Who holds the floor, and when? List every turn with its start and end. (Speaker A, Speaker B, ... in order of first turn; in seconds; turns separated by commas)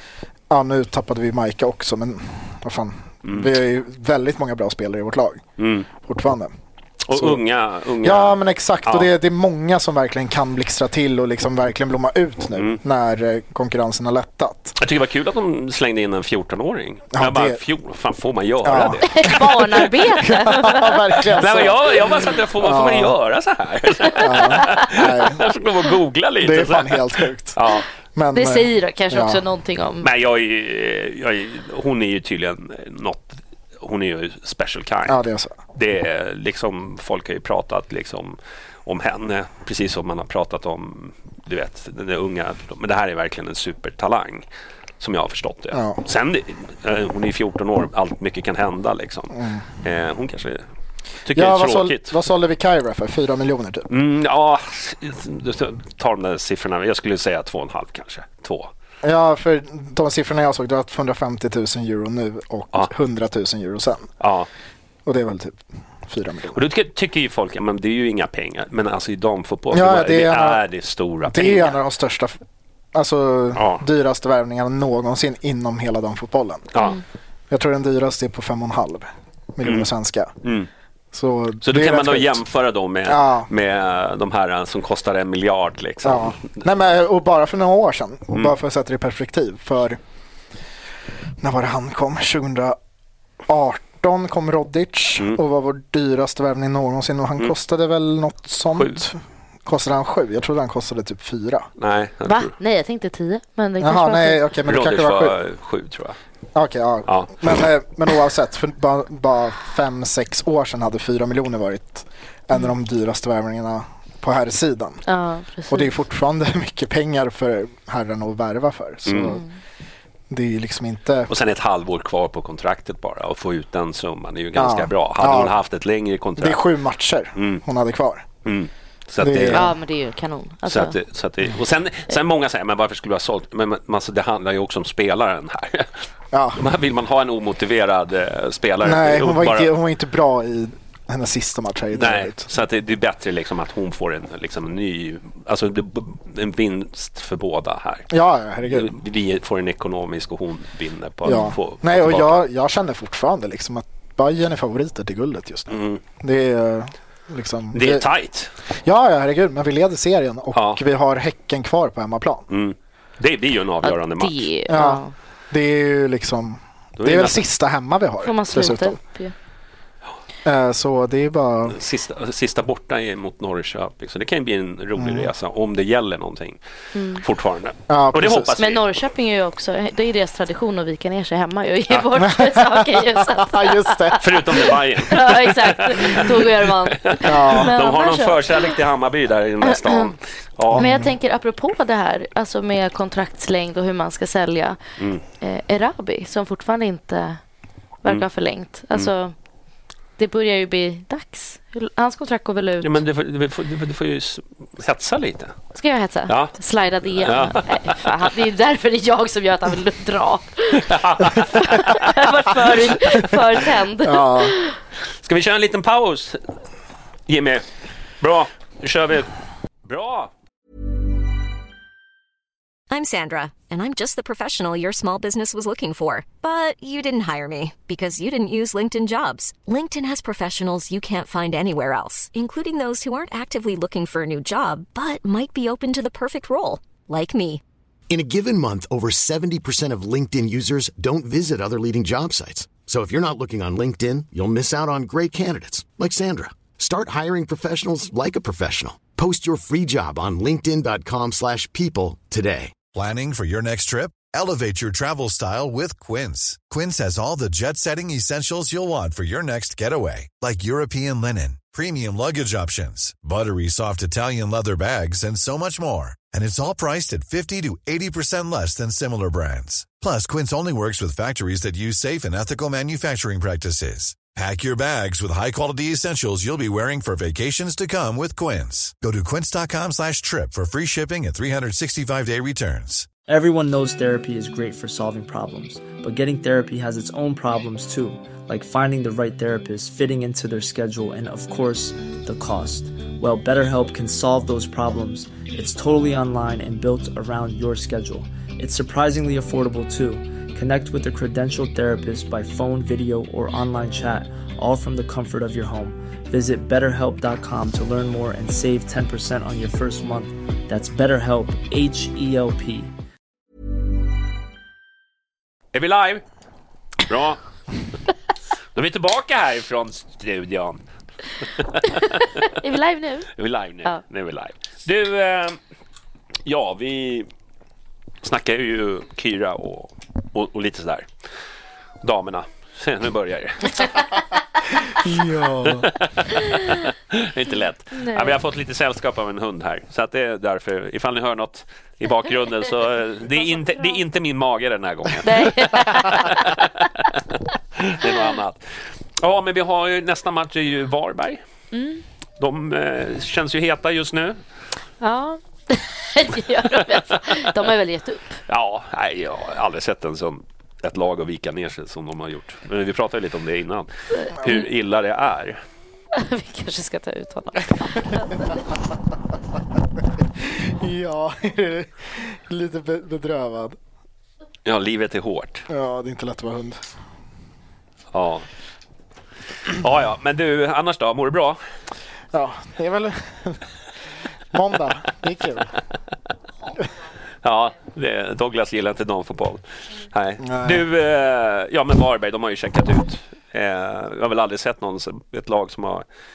Speaker A: 0.5-5.4, Speaker B: 3.2-3.5, Speaker B: 5.6-5.9, Speaker A: 6.0-6.5, Speaker B: 7.0-9.1, Speaker A: 7.1-7.4, Speaker A: 8.0-14.8, Speaker B: 12.6-12.8, Speaker B: 14.8-20.2, Speaker A: 17.1-17.6, Speaker A: 18.6-23.1, Speaker C: 19.0-21.2, Speaker B: 21.3-27.9, Speaker A: 24.2-25.5, Speaker C: 24.4-24.8, Speaker A: 26.4-27.6, Speaker A: 28.1-29.4, Speaker C: 28.3-30.1, Speaker B: 30.0-35.2, Speaker A: 35.0-35.5, Speaker B: 35.7-44.5, Speaker B: 45.0-50.6, Speaker A: 45.7-46.0, Speaker A: 49.3-49.6, Speaker B: 51.2-52.1, Speaker A: 51.3-53.9, Speaker B: 53.9-58.7, Speaker A: 59.0-64.1, Speaker B: 64.2-64.5, Speaker A: 65.0-66.6, Speaker B: 66.5-71.8, Speaker A: 69.7-70.6, Speaker A: 71.2-72.4, Speaker A: 72.9-76.7, Speaker B: 73.5-73.8, Speaker B: 76.7-77.0, Speaker A: 77.5-80.3, Speaker B: 80.4-80.7, Speaker A: 81.1-82.4, Speaker B: 81.6-86.6, Speaker A: 83.0-83.5, Speaker A: 86.0-90.0, Speaker A: 91.4-92.8, Speaker A: 93.5-101.7, Speaker B: 98.7-99.0, Speaker B: 101.8-102.5, Speaker C: 102.3-104.4, Speaker A: 103.8-105.3, Speaker B: 104.7-106.2, Speaker A: 106.5-115.0, Speaker B: 107.1-107.6, Speaker C: 115.0-115.9, Speaker A: 115.7-119.4, Speaker B: 119.0-119.4, Speaker A: 120.3-121.3, Speaker B: 121.3-126.6, Speaker A: 124.5-125.5, Speaker A: 126.4-128.3, Speaker B: 127.3-127.6, Speaker B: 128.4-129.7, Speaker A: 129.2-129.7, Speaker C: 129.5-130.9, Speaker B: 130.7-135.9, Speaker A: 136.3-136.6, Speaker B: 136.5-139.7, Speaker A: 138.8-142.4, Speaker B: 141.9-148.1, Speaker A: 148.1-148.9, Speaker B: 148.6-152.4, Speaker A: 151.2-158.1, Speaker B: 155.7-156.0, Speaker B: 157.7-158.5, Speaker A: 158.8-162.5, Speaker B: 160.5-160.8, Speaker B: 162.5-164.5, Speaker C: 163.8-165.1, Speaker A: 164.7-169.0, Speaker B: 167.0-167.4, Speaker C: 168.2-169.3, Speaker A: 170.4-171.8, Speaker B: 171.7-176.6, Speaker A: 174.9-175.3, Speaker C: 176.9-177.2, Speaker B: 177.1-178.8, Speaker A: 177.9-178.6, Speaker C: 178.6-188.7, Speaker A: 182.2-184.5, Speaker B: 184.2-186.4, Speaker B: 186.9-191.0, Speaker A: 187.2-187.7, Speaker C: 189.6-190.1, Speaker A: 190.7-191.1, Speaker C: 190.7-194.8, Speaker C: 195.4-197.4, Speaker C: 198.0-199.3, Speaker C: 200.2-202.9, Speaker B: 202.8-205.5, Speaker C: 205.7-214.8, Speaker B: 206.3-206.5, Speaker B: 207.1-208.0, Speaker B: 210.8-212.1, Speaker A: 214.0-214.5, Speaker B: 215.2-216.4, Speaker B: 217.3-217.7, Speaker B: 218.2-219.3, Speaker B: 219.8-220.3, Speaker D: 222.9-237.6, Speaker E: 238.1-252.8, Speaker F: 252.9-283.1, Speaker G: 283.3-312.9, Speaker B: 315.7-316.2, Speaker B: 317.1-317.4, Speaker B: 318.7-320.8, Speaker B: 321.6-322.6, Speaker C: 322.5-323.3, Speaker B: 323.4-325.6, Speaker B: 326.4-327.3, Speaker B: 328.2-331.1, Speaker B: 332.0-334.2, Speaker A: 335.0-335.9, Speaker B: 335.6-347.1, Speaker C: 337.9-338.4, Speaker C: 343.4-344.0, Speaker C: 345.2-346.5, Speaker B: 347.8-348.6, Speaker B: 349.2-351.4, Speaker C: 351.7-352.0, Speaker B: 352.4-354.4, Speaker C: 355.0-358.4, Speaker B: 358.5-365.6, Speaker C: 364.2-364.6, Speaker C: 366.1-368.6, Speaker A: 370.4-373.8, Speaker B: 374.6-375.7, Speaker A: 375.7-376.8, Speaker B: 378.1-378.4, Speaker B: 379.7-381.6, Speaker A: 382.3-383.6, Speaker A: 384.5-385.7, Speaker B: 387.4-396.0, Speaker A: 390.4-390.8